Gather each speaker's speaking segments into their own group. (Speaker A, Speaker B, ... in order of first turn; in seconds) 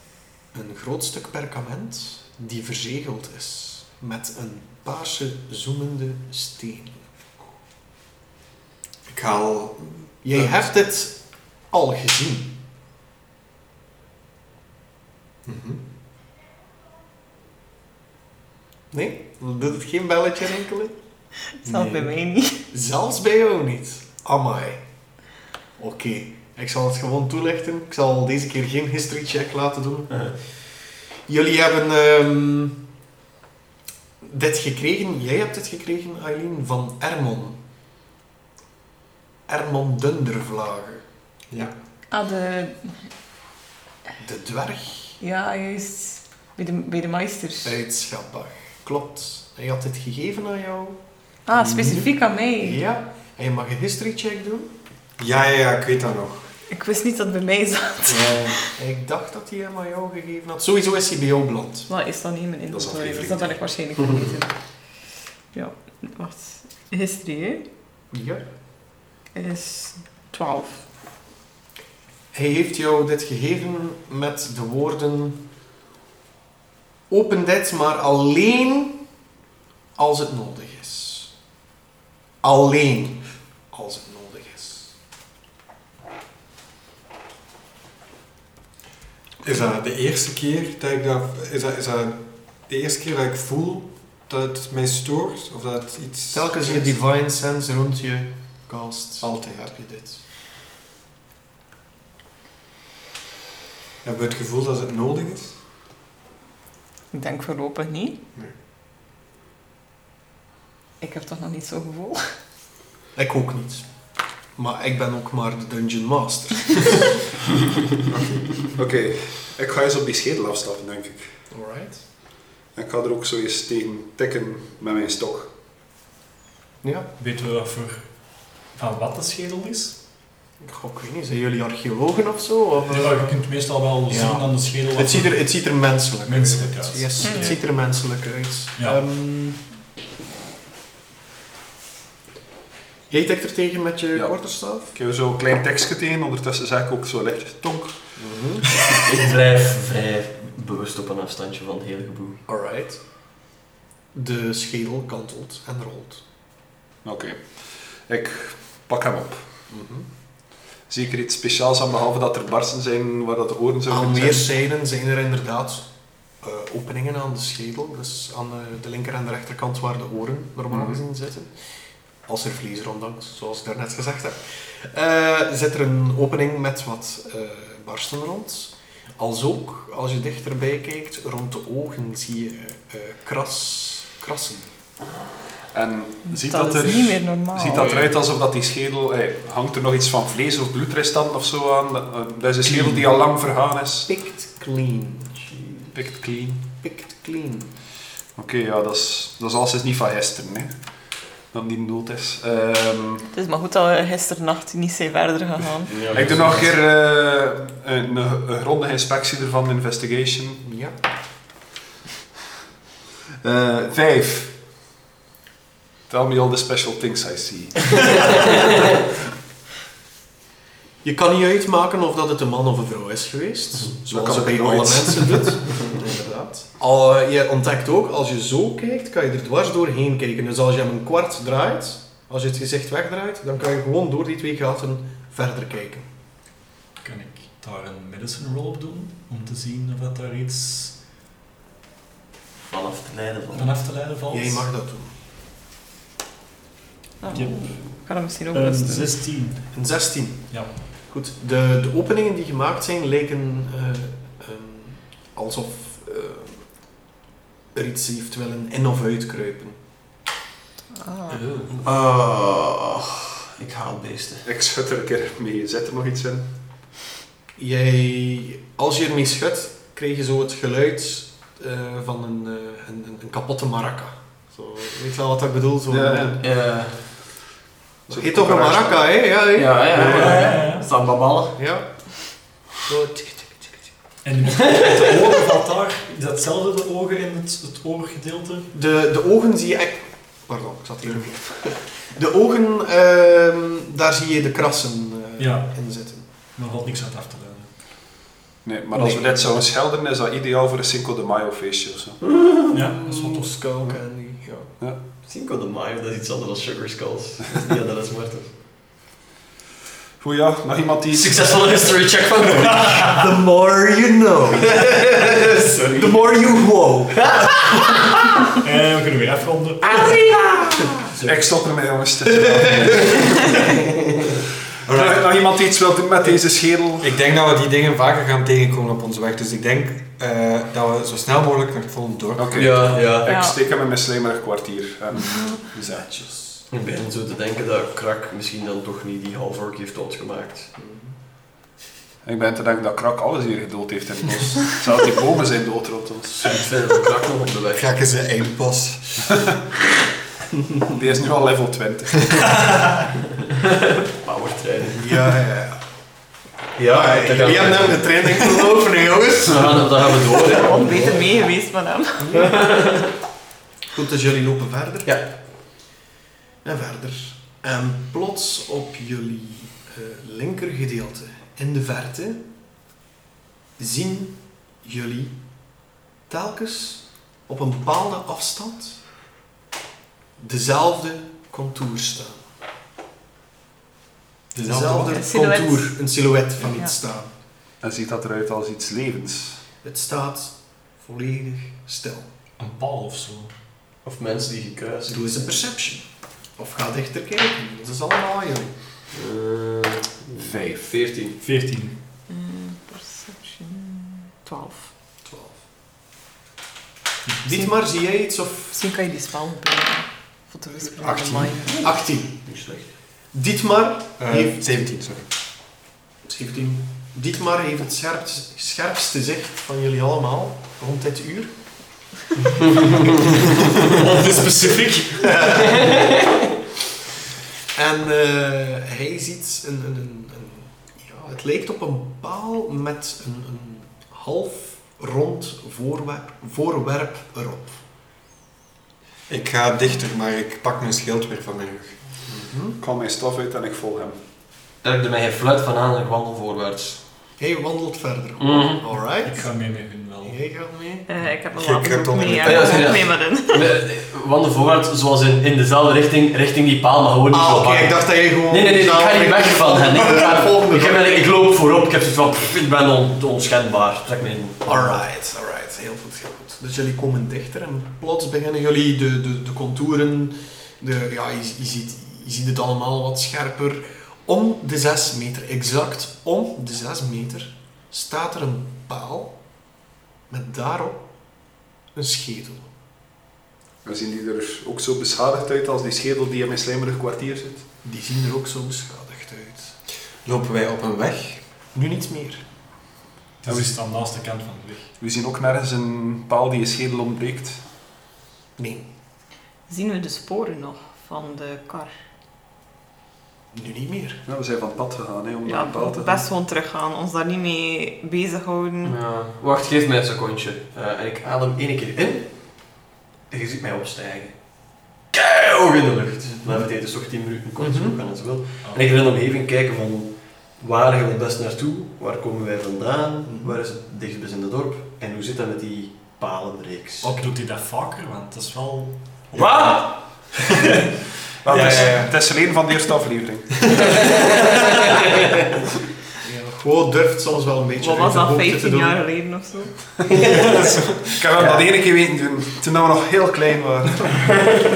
Speaker A: 0.5-7.1, 10.2-12.6, 18.9-20.9, 22.7-24.9, 25.8-30.7, 31.3-32.8, 34.2-37.6, 39.5-41.0, 44.2-45.2, 47.6-51.0, 51.5-54.7, 58.7-61.9, 68.1-68.4, 72.3-75.4, 77.1-79.0, 80.0-81.3, 82.4-84.9, 96.3-100.2, 113.2-113.9, 114.6-117.2, 121.5-122.0, 126.8-127.1, 130.6-133.4, 134.1-139.6, 143.1-144.9, 148.2-148.7, 152.5-153.0, 154.1-156.2, 159.7-160.1, 163.9-165.9, 166.4-171.6, 172.3-184.7, 192.7-193.0, 194.1-195.6, 196.8-197.7, 210.6-210.9, 221.0-236.1, 244.3-245.1, 249.7-256.7, 257.7-259.8, 267.6-276.4, 278.1-280.4, 281.6-283.9, 288.7-296.3, 298.9-299.6, 302.7-304.7, 312.8-318.0, 319.9-321.1, 322.5-323.3, 335.9-336.6, 340.8-341.1, 355.0-355.8, 356.9-360.5, 362.2-362.6, 363.9-365.2, 366.6-372.4, 373.8-375.4, 376.3-379.0, 380.4-382.5, 384.5-387.3, 389.8-392.3, 395.1-398.7, 405.2-405.6, 407.4-408.8, 411.8-412.4, 413.3-414.8, 416.2-421.6, 422.5-426.2, 427.8-437.8, 442.3-442.8, 447.4-449.5, 450.2-451.1, 457.3-461.3, 464.7-479.4, 480.3-481.1, 481.9-482.7, 487.8-489.8, 491.7-492.4, 498.6-498.9, 503.5-504.2, 516.3-516.6, 517.6-518.0, 523.2-523.6, 527.0-527.3, 531.5-532.1, 536.2-539.0, 544.1-544.4
Speaker B: 9.1-10.7, 15.5-15.8, 55.2-56.5, 58.1-58.6, 89.4-96.9, 99.2-99.8, 104.0-105.6, 324.9-325.3, 327.0-332.8, 347.8-349.3, 411.0-411.6, 414.2-415.3, 439.3-441.9, 451.5-453.0, 490.2-491.4
Speaker C: 21.6-22.6, 42.1-43.0, 45.2-47.8, 51.5-52.8, 56.7-58.7, 61.9-64.6, 65.5-67.7, 69.3-70.8, 107.1-108.2, 111.0-112.3, 137.2-137.6, 186.2-188.1, 203.3-206.1, 247.2-249.2, 261.0-261.4, 333.2-333.6, 360.4-362.5, 384.9-385.9, 402.3-404.9, 408.7-411.9, 451.1-453.7, 499.7-501.9, 505.4-509.0, 537.8-539.9
Speaker D: 21.8-22.0, 148.7-152.4, 205.9-206.7, 242.6-243.8, 261.7-264.4, 276.4-277.0, 279.5-281.6, 302.3-302.6, 305.2-308.5, 311.1-313.1, 314.8-316.5, 317.2-318.1, 332.6-333.3, 336.7-340.7, 346.3-347.9, 353.6-355.3, 356.8-358.2, 359.5-361.2, 362.3-363.1, 384.7-385.1, 394.0-395.6, 399.1-401.4, 411.7-412.9, 425.7-426.1, 444.8-447.0, 448.4-448.9, 452.4-465.0, 508.8-514.4, 515.1-527.1, 529.4-530.3, 533.8-535.3, 540.2-540.6, 544.3-544.6
Speaker E: 62.7-63.6, 118.7-121.3, 122.8-125.5, 144.9-148.0, 157.1-159.4, 160.9-164.5, 170.7-171.0, 185.7-194.1, 195.9-196.7, 198.4-200.7, 201.5-203.2, 206.0-210.6, 213.4-214.5, 216.1-218.8, 224.1-225.6, 264.4-266.5, 275.9-276.4, 278.1-279.2, 280.0-280.4, 298.6-302.2, 310.2-311.8, 321.2-323.7, 324.9-327.1, 332.4-336.1, 342.2-346.7, 350.9-352.8, 387.8-389.6, 400.4-400.9, 442.8-444.2, 483.8-487.7, 493.5-493.7, 495.0-497.6, 504.3-506.2, 529.4-530.1, 531.4-534.2, 541.1-544.1
Speaker F: 127.2-130.0, 132.9-135.4, 136.2-137.6, 237.0-241.0, 243.5-244.7, 247.3-249.8, 280.0-280.9, 284.2-288.7, 295.4-295.9, 296.5-297.7, 302.7-303.5, 318.6-320.1, 392.6-393.5, 401.4-402.0, 424.0-424.9, 449.2-450.4, 493.4-494.9, 527.1-529.5